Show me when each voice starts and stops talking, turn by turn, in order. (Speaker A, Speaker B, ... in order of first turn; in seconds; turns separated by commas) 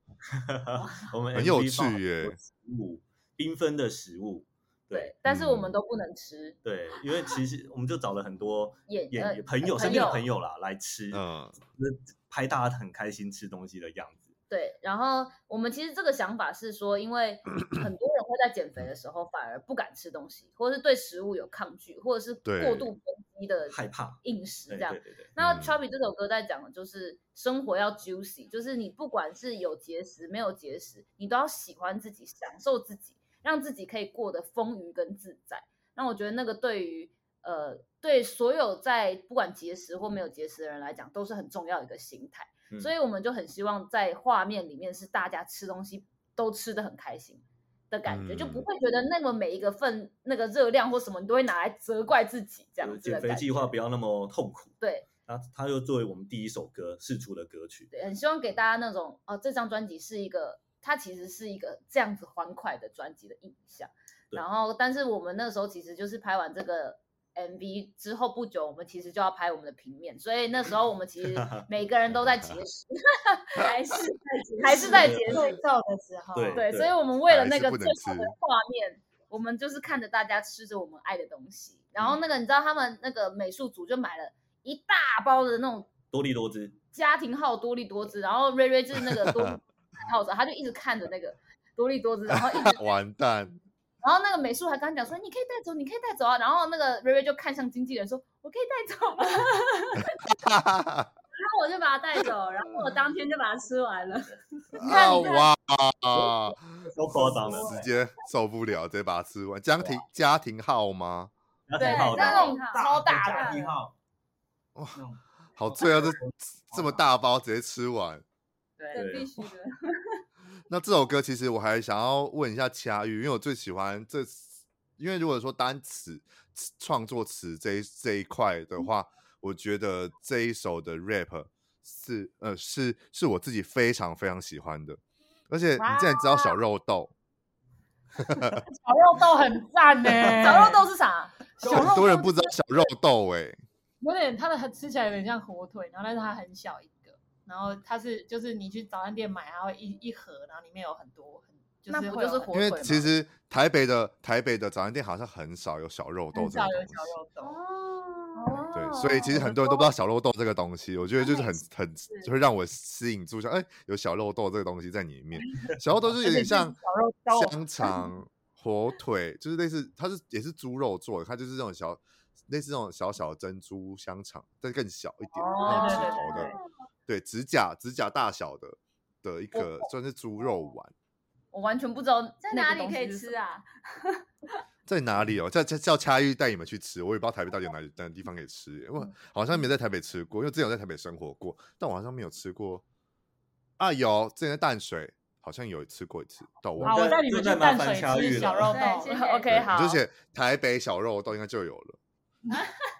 Speaker A: 0.3-5.1, Speaker B: 1.3-2.4, Speaker C: 4.9-6.6, Speaker B: 5.2-5.7, Speaker A: 6.6-14.3, Speaker C: 8.9-10.3, Speaker D: 9.8-10.1, Speaker B: 11.1-11.6, Speaker C: 14.5-53.7, Speaker B: 22.4-22.9, Speaker A: 23.7-25.3, Speaker B: 25.4-25.8, Speaker B: 48.1-48.6, Speaker A: 52.8-57.9, Speaker C: 54.8-55.0, Speaker C: 57.9-73.7, Speaker A: 71.3-71.6, Speaker D: 73.5-75.5, Speaker C: 74.6-75.6, Speaker E: 74.6-76.7, Speaker A: 75.0-75.3, Speaker A: 76.3-76.9, Speaker C: 76.5-85.9, Speaker B: 77.3-78.3, Speaker A: 86.1-86.8, Speaker C: 86.9-92.9, Speaker B: 89.2-89.5, Speaker B: 92.3-93.5, Speaker C: 94.0-99.5, Speaker D: 99.4-99.9, Speaker B: 100.3-101.1, Speaker D: 101.4-105.5, Speaker B: 104.8-111.3, Speaker C: 104.9-105.3, Speaker A: 106.8-107.8, Speaker A: 111.7-112.6, Speaker D: 111.8-113.7, Speaker C: 111.8-113.6, Speaker F: 112.2-113.9, Speaker B: 114.8-115.0, Speaker F: 114.9-117.0, Speaker B: 115.5-118.2, Speaker C: 118.8-119.2, Speaker D: 118.9-120.2, Speaker A: 118.9-119.3, Speaker B: 120.7-137.1, Speaker E: 135.8-136.6, Speaker B: 138.2-138.6, Speaker E: 138.5-140.8, Speaker C: 140.4-142.2, Speaker E: 141.6-142.3, Speaker B: 141.6-143.6, Speaker E: 144.0-152.5, Speaker C: 151.9-153.2, Speaker B: 152.5-157.2, Speaker E: 156.3-157.6, Speaker D: 157.4-158.6, Speaker C: 158.3-159.8, Speaker B: 158.7-166.8, Speaker E: 166.2-168.1, Speaker B: 167.3-176.5, Speaker C: 175.3-176.6, Speaker D: 175.6-176.6, Speaker E: 175.7-176.2, Speaker B: 177.1-180.9, Speaker C: 179.5-179.9, Speaker C: 181.5-183.4, Speaker D: 182.4-184.2, Speaker B: 184.9-192.8, Speaker B: 193.8-197.1, Speaker E: 196.8-199.1, Speaker A: 196.8-198.8, Speaker D: 198.7-199.6, Speaker C: 199.1-200.0, Speaker B: 199.5-202.0, Speaker D: 202.5-202.8